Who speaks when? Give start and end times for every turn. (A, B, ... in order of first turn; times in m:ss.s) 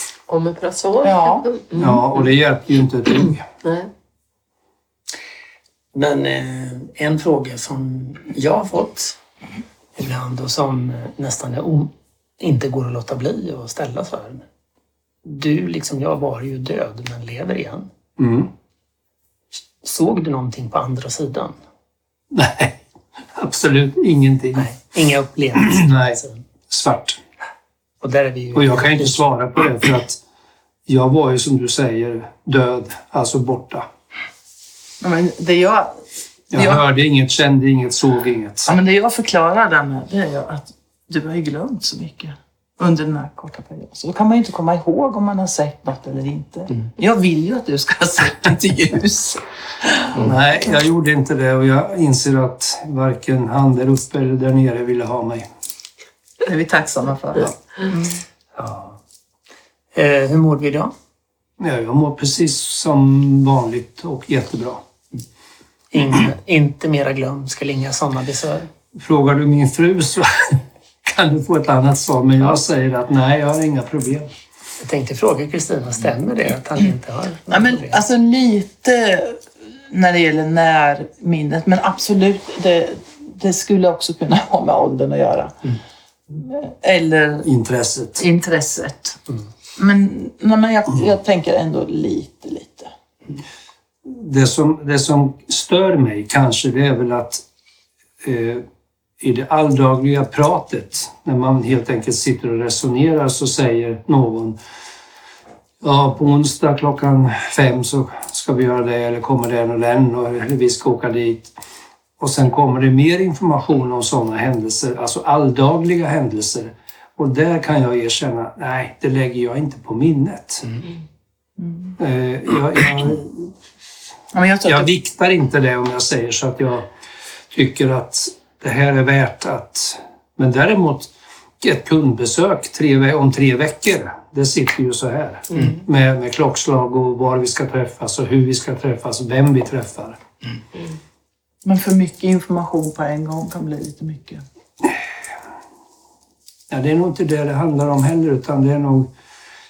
0:00.3-0:02.3 A
0:01.0-0:01.5 B
0:01.8-0:03.4 C
0:03.2-0:03.9 A
0:05.9-0:09.2 D
0:10.0-0:14.4 D
0:15.2-0:17.9 D
0:18.2-0:18.5 C
0:19.8-0:21.6 D
0:22.3-0:22.8 C
0:23.3-0:24.8 C
0:24.6-0:26.4 D
0:25.6-0:27.2 C
0:28.0-0:29.2 D
0:28.6-0:30.2 C
0:30.9-0:33.9 C
0:35.0-0:36.8 B
0:36.5-0:38.7 C
0:38.7-0:50.4 B
0:50.2-0:55.4 C
0:56.4-0:58.2 B
0:58.6-0:59.0 D
0:59.9-1:00.9 D
1:01.6-1:04.8 C
1:05.9-1:08.7 D
1:08.9-1:14.3 C
1:14.8-1:18.0 D
1:17.5-1:25.6 B
1:26.3-1:27.5 B
1:27.4-1:28.2 C
1:28.2-1:29.2 B
1:29.8-1:32.9 B
1:34.0-1:37.4 C
1:38.2-1:38.6 C
1:39.2-1:44.6 C
1:45.8-1:51.5 C
1:52.2-2:00.8 C
2:01.6-2:02.0 B
2:02.0-2:03.5 C
2:04.3-2:04.9 B
2:04.6-2:06.9 C
2:07.5-2:20.2 C
2:15.5-2:15.8 A
2:21.6-2:24.4 B
2:26.7-2:29.1 C